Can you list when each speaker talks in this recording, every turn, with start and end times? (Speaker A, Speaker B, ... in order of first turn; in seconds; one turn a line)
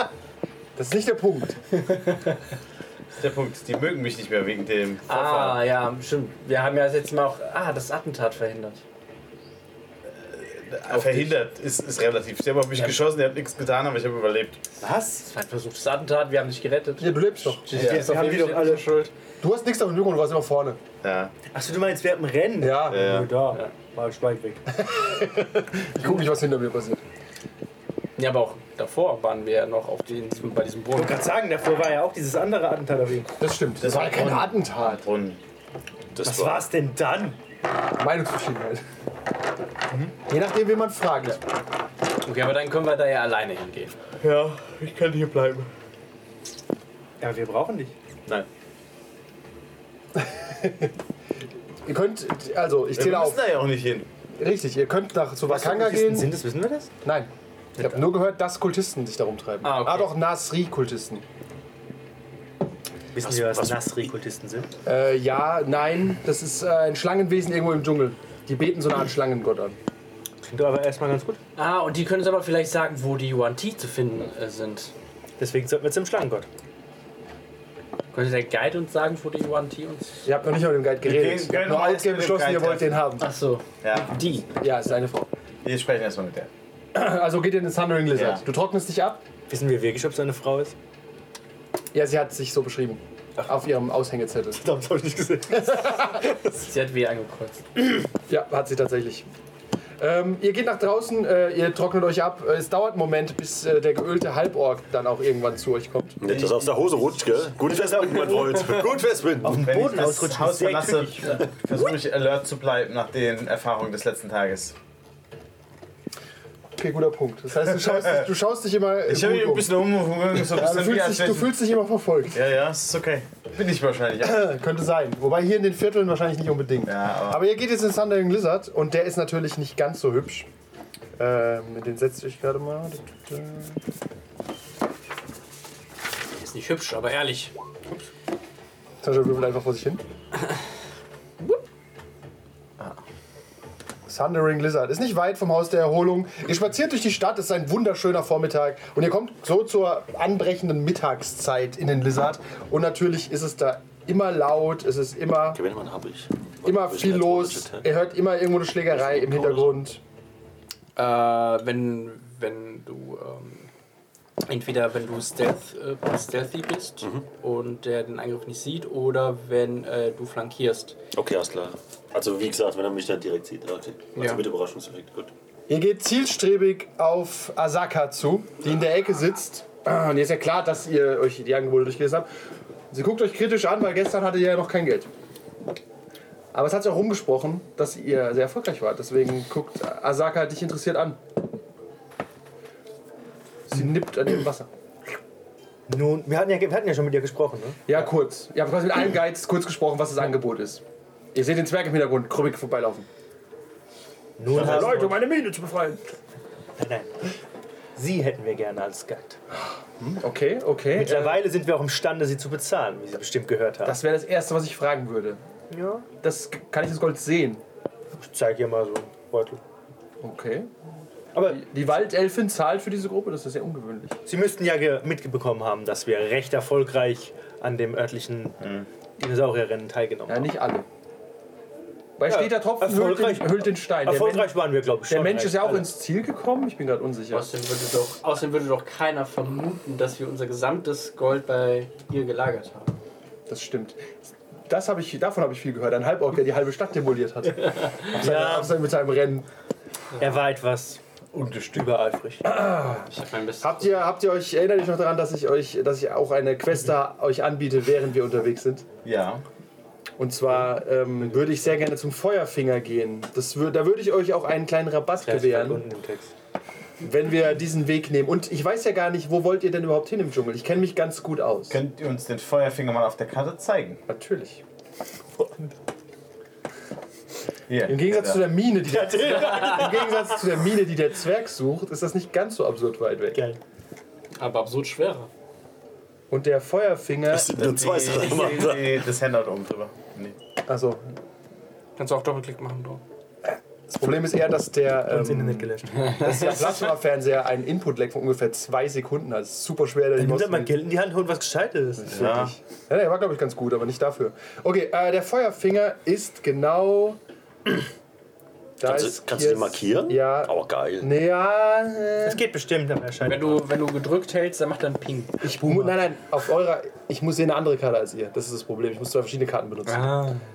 Speaker A: 0.8-1.6
Speaker B: 3.2-5.6
Speaker C: 5.1-8.8
Speaker B: 10.2-14.6
Speaker C: 10.9-11.3
Speaker D: 14.8-15.3
Speaker C: 15.3-19.1
Speaker A: 17.0-17.7
Speaker D: 17.7-19.0
Speaker B: 17.7-18.1
Speaker A: 19.4-20.8
Speaker B: 21.0-21.3
Speaker D: 21.5-24.8
Speaker A: 22.6-23.0
Speaker B: 22.9-23.3
Speaker A: 24.8-27.0
Speaker C: 28.2-31.2
Speaker D: 31.0-33.3
Speaker A: 33.4-35.0
Speaker B: 33.8-35.4
Speaker E: 36.1-36.6
Speaker D: 36.2-37.4
Speaker A: 38.0-38.8
Speaker A: 40.3-41.4
Speaker C: 42.2-44.0
Speaker B: 44.2-45.7
Speaker D: 47.2-47.9
Speaker A: 50.2-50.9
Speaker A: 51.9-53.5
Speaker B: 52.9-54.1
Speaker A: 54.3-56.3
Speaker D: 55.5-56.9
Speaker A: 57.0-61.2
Speaker D: 57.8-58.1
Speaker C: 59.6-60.1
Speaker D: 63.1-64.7
Speaker E: 63.2-64.1
Speaker A: 64.9-69.8
Speaker D: 70.4-71.4
Speaker C: 71.6-74.9
Speaker D: 75.4-76.5
Speaker C: 78.1-80.2
Speaker A: 80.2-83.2
Speaker B: 81.0-83.1
Speaker C: 83.2-84.5
Speaker B: 83.8-84.1
Speaker A: 84.6-85.3
Speaker B: 85.6-86.5
Speaker A: 86.9-89.2
Speaker B: 88.1-88.4
Speaker D: 89.5-90.8
Speaker A: 91.9-94.6
Speaker D: 94.6-96.5
Speaker A: 95.6-95.9
Speaker C: 96.0-97.7
Speaker A: 98.3-99.3
Speaker A: 100.0-106.2
Speaker E: 106.2-109.8
Speaker B: 106.3-106.8
Speaker D: 109.4-111.5
Speaker B: 109.6-114.8
Speaker A: 116.8-119.7
Speaker B: 117.8-118.3
Speaker B: 119.1-121.6
Speaker A: 120.4-122.4
Speaker B: 122.3-124.5
Speaker A: 124.2-130.5
Speaker B: 126.8-127.4
Speaker A: 131.2-133.8
Speaker C: 136.4-137.5
Speaker A: 139.0-140.0
Speaker A: 144.1-155.6
Speaker E: 155.5-157.9
Speaker A: 156.6-160.0
Speaker E: 158.9-159.8
Speaker C: 160.9-163.7
Speaker C: 164.5-171.0
Speaker E: 171.1-175.3
Speaker C: 174.2-174.4
Speaker A: 175.7-182.3
Speaker A: 182.9-185.1
Speaker A: 186.5-191.2
Speaker A: 193.7-194.7
Speaker D: 195.9-198.1
Speaker A: 197.9-200.8
Speaker A: 201.3-203.1
Speaker D: 204.4-205.4
Speaker A: 204.5-206.0
Speaker D: 206.8-207.1
Speaker D: 207.9-209.4
Speaker A: 209.6-211.4
Speaker D: 210.9-214.0
Speaker A: 213.8-215.4
Speaker D: 215.7-216.1
Speaker A: 216.2-217.6
Speaker D: 218.2-219.6
Speaker A: 220.2-220.7
Speaker D: 221.3-221.7
Speaker A: 221.4-224.2
Speaker D: 224.3-228.6
Speaker B: 228.6-228.9
Speaker D: 229.2-230.5
Speaker A: 230.3-230.8
Speaker A: 232.2-237.5
Speaker D: 232.3-235.9
Speaker C: 237.3-242.9
Speaker A: 243.5-249.5
Speaker D: 248.1-248.8
Speaker D: 250.2-251.0
Speaker B: 251.3-252.1
Speaker D: 251.7-252.5
Speaker A: 252.4-253.1
Speaker C: 253.1-254.0
Speaker A: 253.6-258.9
Speaker B: 259.0-259.4
Speaker A: 260.2-265.8
Speaker D: 261.2-261.6
Speaker D: 265.2-266.3
Speaker A: 267.0-271.8
Speaker B: 271.7-274.0
Speaker A: 274.1-274.6
Speaker B: 277.7-278.5
Speaker A: 277.9-283.4
Speaker D: 278.9-280.3
Speaker D: 283.3-283.6
Speaker C: 284.4-285.3
Speaker A: 286.3-287.6
Speaker E: 287.3-289.1
Speaker B: 287.6-290.4
Speaker A: 290.7-291.1
Speaker C: 292.0-293.0
Speaker A: 293.4-300.8
Speaker D: 295.1-296.2
Speaker C: 295.9-296.8
Speaker D: 300.2-302.3
Speaker A: 302.0-307.2
Speaker B: 302.1-302.5
Speaker A: 308.8-312.4
Speaker E: 308.8-311.1
Speaker D: 312.2-313.6
Speaker C: 313.2-315.4
Speaker A: 315.4-320.1
Speaker C: 319.9-320.4